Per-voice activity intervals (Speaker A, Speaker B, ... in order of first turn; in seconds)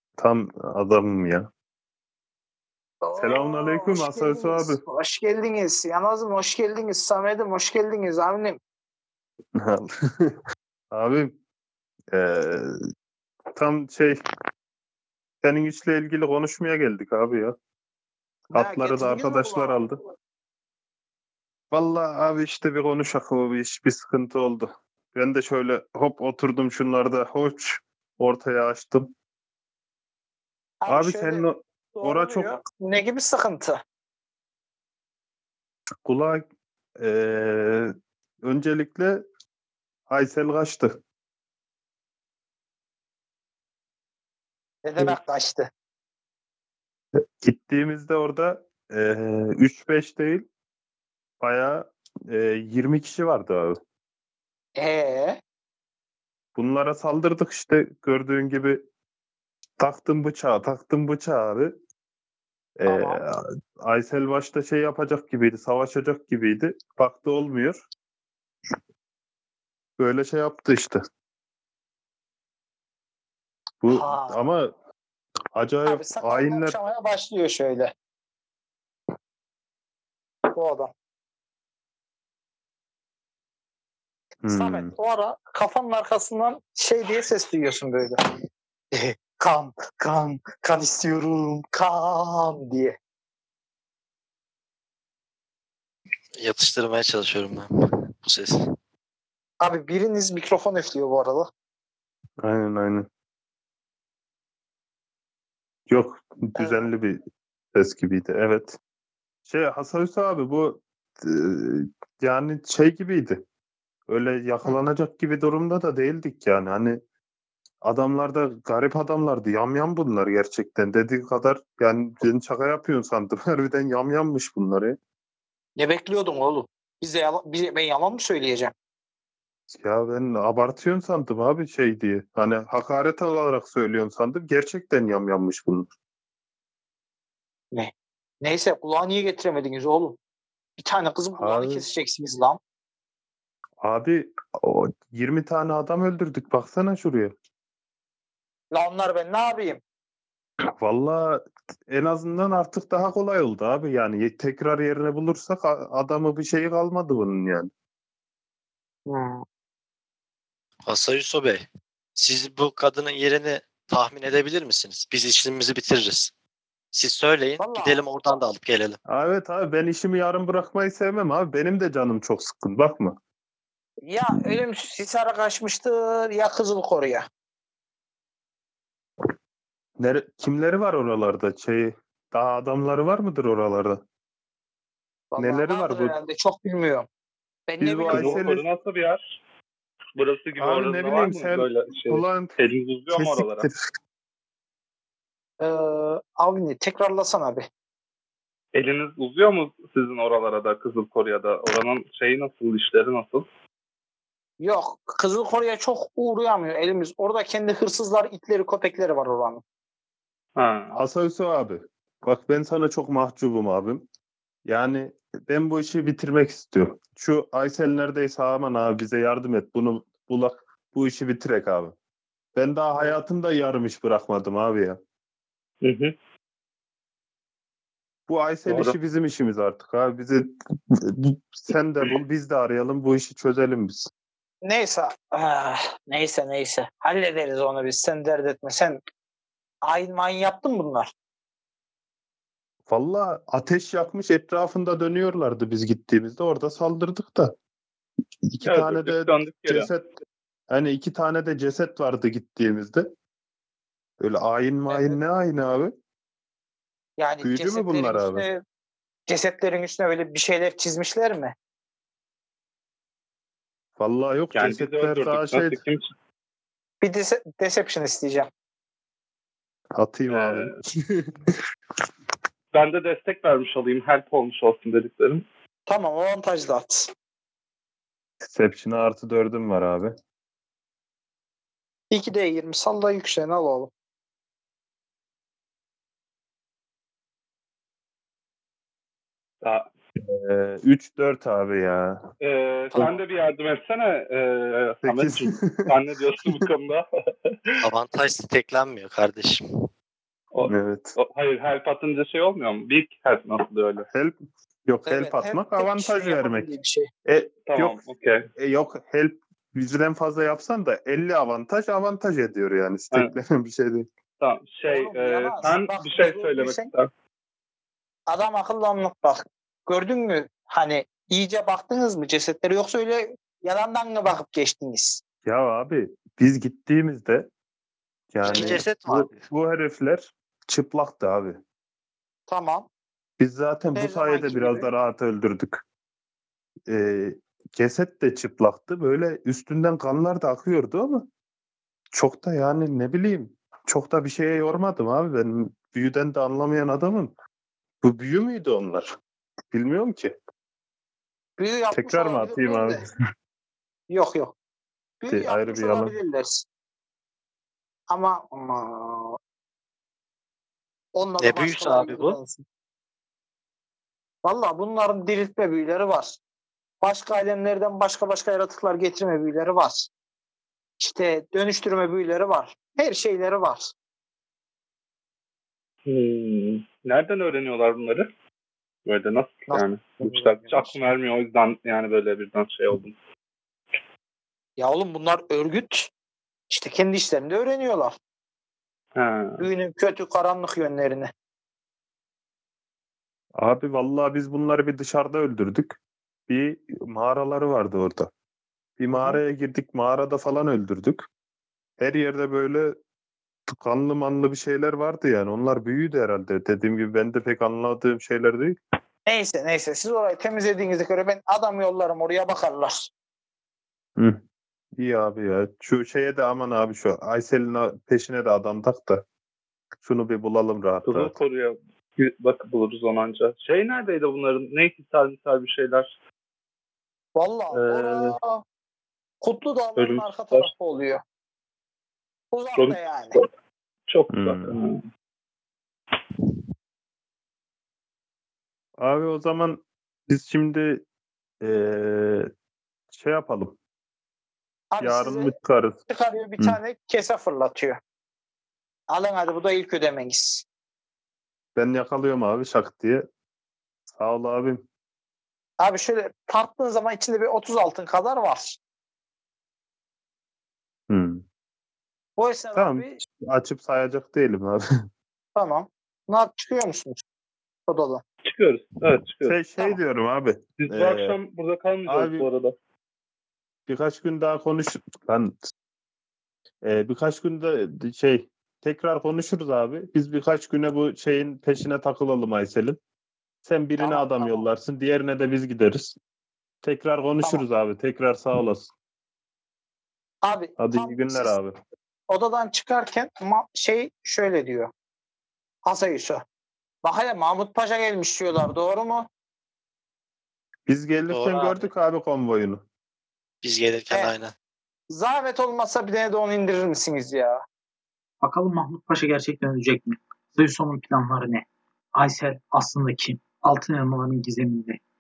Speaker A: 0.2-1.5, 3.2-4.8, 9.6-10.4, 10.9-11.4, 12.1-12.8, 13.5-14.2, 15.4-17.6, 18.5-20.0, 21.7-29.1, 30.9-32.5, 36.0-36.5, 37.0-37.9, 38.4-39.2, 40.1-41.0, 47.2-50.4, 51.4-53.8, 56.6-58.8, 59.8-61.7, 62.8-67.8, 70.0-71.0, 73.8-74.7, 75.5-76.8, 84.4-84.9, 102.4-103.1, 105.9-107.2, 107.7-108.8, 109.5-113.4, 114.1-117.0, 117.8-125.0, 129.7-135.9, 141.4-141.8, 143.8-147.3, 150.8-157.7, 169.1-173.2, 180.0-184.0, 185.4-186.2, 187.8-188.7, 190.6-192.6, 193.1-193.8, 210.9-214.0, 214.7-221.9, 222.6-225.0, 228.3-234.1, 242.9-247.5, 248.4-250.1, 250.7-253.1, 254.2-255.9, 257.4-258.4, 264.0-265.8, 270.0-271.6, 278.4-280.1, 290.2-292.2, 295.0-295.9, 300.7-301.1, 304.1-306.7, 307.3-308.0, 308.6-314.1, 325.4-327.5, 328.3-331.6, 333.4-335.8, 336.9-341.3, 342.1-347.3, 348.0-349.1, 349.7-350.3, 351.9-353.1, 355.3-356.1, 393.6-396.0, 396.5-398.3, 399.0-401.3, 402.0-403.0, 403.7-408.8, 415.0-419.2, 420.0-421.4, 434.3-434.7, 439.0-441.0, 441.6-442.5, 443.1-443.8, 445.0-446.0, 451.8-453.2, 454.1-454.8, 461.1-461.4, 462.8-464.8, 469.4-471.4, 472.1-472.5, 473.9-475.6, 476.8-483.0, 483.6-486.2, 486.8-488.9, 490.8-491.8, 500.9-502.8
Speaker B: 3.0-8.6, 18.5-19.8, 30.8-33.8, 44.9-45.7, 54.8-55.4, 62.9-63.2, 73.9-74.4, 75.8-77.9, 80.5-80.9, 84.5-88.2, 88.9-93.0, 99.6-101.5, 106.6-106.9, 125.8-128.7, 137.7-140.2, 140.8-142.6, 148.7-149.8, 159.1-159.4, 167.6-168.0, 174.1-177.2, 185.3-187.1, 187.7-188.4, 195.6-197.7, 204.6-209.6, 234.6-239.0, 239.8-241.1, 254.9-255.2, 257.2-258.6, 259.3-261.5, 267.0-268.5, 275.9-277.1, 282.1-283.9, 305.1-307.1, 314.9-316.9, 318.3-325.2, 328.4-328.8, 332.5-332.9, 333.9-334.9, 351.6-353.0, 354.1-354.6, 355.2-356.6, 358.1-359.4, 361.1-362.6, 364.4-366.4, 367.0-370.1, 371.0-373.9, 379.7-381.0, 384.8-386.1, 386.7-388.1, 389.6-391.3, 409.3-413.1, 427.4-428.6, 429.4-431.2, 432.5-433.4, 444.9-445.5, 446.1-448.0, 449.1-450.6, 455.8-458.8, 462.4-463.2, 465.6-467.2, 467.9-468.2, 484.0-484.7, 490.4-491.6, 492.3-494.9, 495.9-496.4, 497.0-499.3, 505.1-507.6
Speaker C: 96.4-97.7, 98.2-98.6, 160.9-166.3, 166.9-169.0, 297.8-299.6, 328.4-329.5, 361.4-362.4, 501.3-501.9, 503.6-504.5
Speaker D: 188.1-189.4, 190.2-193.7, 198.7-203.5, 210.6-211.0, 225.8-226.1, 228.7-229.0, 248.6-249.9, 264.5-266.1, 270.3-270.8, 272.7-275.4, 289.6-289.9, 292.4-297.8, 300.5-304.1, 307.7-308.5, 314.4-317.1, 376.1-378.3, 379.1-383.2, 389.2-389.7, 421.1-426.1, 427.7-428.4, 430.0-430.7, 432.8-433.5, 434.1-435.1, 468.4-469.6, 470.8-472.8
Speaker E: 508.4-515.0